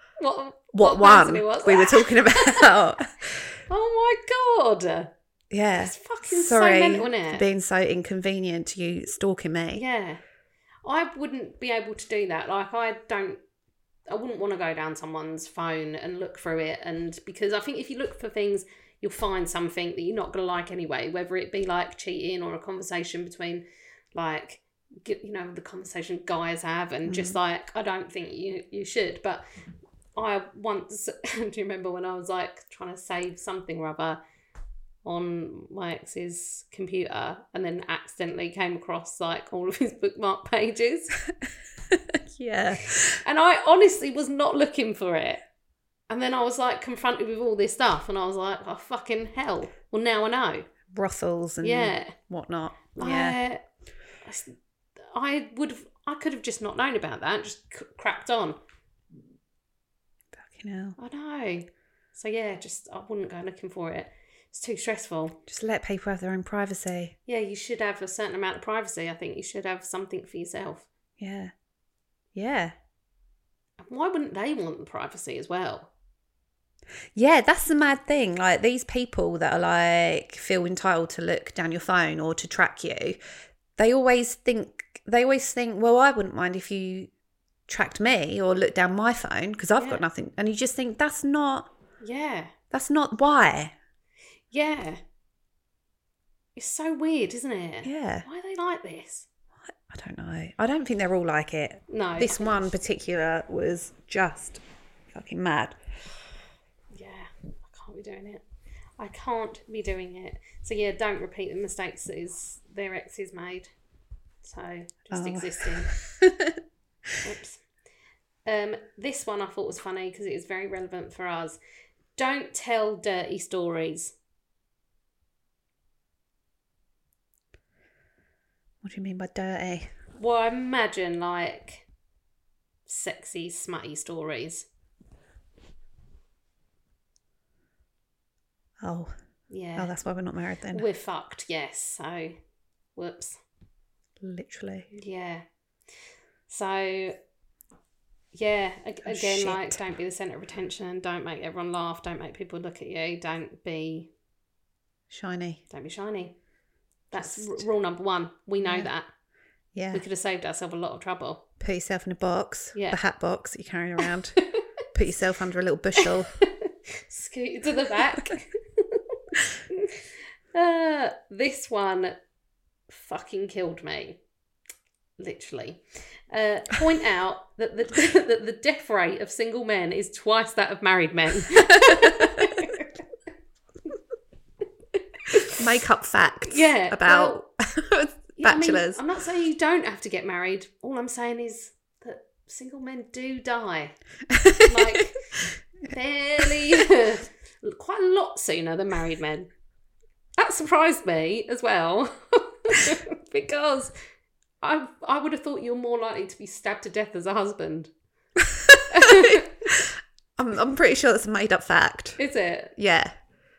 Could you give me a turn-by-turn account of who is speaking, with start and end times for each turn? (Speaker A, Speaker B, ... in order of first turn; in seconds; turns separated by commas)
Speaker A: 0.2-2.7, Speaker B: 0.7-3.4, Speaker A: 3.7-5.1, Speaker B: 5.5-9.8, Speaker A: 5.8-7.5, Speaker A: 9.7-10.2, Speaker A: 10.8-13.4, Speaker A: 14.1-29.4, Speaker B: 27.1-27.4, Speaker A: 30.2-34.2, Speaker A: 35.0-41.2, Speaker B: 41.9-43.2, Speaker A: 42.9-45.4, Speaker A: 46.1-50.7, Speaker B: 50.9-53.4, Speaker A: 51.6-52.2, Speaker A: 53.0-53.6, Speaker A: 54.2-58.6, Speaker B: 60.3-61.0, Speaker A: 61.0-65.4, Speaker B: 65.5-67.2, Speaker A: 67.3-70.9, Speaker B: 71.2-71.5, Speaker B: 72.3-72.7, Speaker A: 73.8-75.9, Speaker B: 77.2-83.2, Speaker B: 83.8-87.1, Speaker B: 87.7-91.7, Speaker A: 89.8-90.0, Speaker A: 92.0-92.5, Speaker B: 92.7-93.7, Speaker A: 94.5-95.0, Speaker A: 96.5-99.3, Speaker B: 97.8-98.3, Speaker B: 99.7-105.8, Speaker A: 101.9-102.7, Speaker A: 106.9-108.4, Speaker A: 109.0-113.7, Speaker A: 114.4-116.0, Speaker B: 115.1-116.5, Speaker A: 117.2-117.6, Speaker A: 118.5-121.6, Speaker A: 122.2-124.2, Speaker B: 128.8-129.9, Speaker A: 130.2-131.8, Speaker A: 132.9-134.7, Speaker B: 138.8-139.1, Speaker A: 139.5-139.9, Speaker B: 139.8-140.9, Speaker A: 140.7-142.4, Speaker A: 142.9-143.4, Speaker B: 144.2-144.9, Speaker A: 144.9-145.4, Speaker A: 146.5-147.2, Speaker A: 148.3-154.1, Speaker B: 149.0-149.8, Speaker B: 155.1-155.6, Speaker A: 155.7-156.3, Speaker B: 157.1-157.7, Speaker A: 157.1-159.1, Speaker B: 158.7-158.9, Speaker B: 159.7-160.1, Speaker A: 159.9-161.4, Speaker B: 161.6-164.4, Speaker A: 162.7-163.0, Speaker B: 164.9-166.3, Speaker A: 166.0-169.2, Speaker A: 169.7-172.2, Speaker A: 172.9-174.2, Speaker A: 175.2-182.9, Speaker B: 181.9-182.4, Speaker A: 185.2-185.6, Speaker B: 185.5-189.0, Speaker A: 186.4-187.4, Speaker A: 188.4-193.9, Speaker B: 194.3-195.0, Speaker A: 194.7-195.2, Speaker A: 195.9-199.5, Speaker B: 196.4-196.7, Speaker A: 200.4-203.9, Speaker A: 204.6-207.9, Speaker B: 208.5-212.2, Speaker A: 208.9-209.5, Speaker A: 212.2-212.7, Speaker B: 212.8-213.1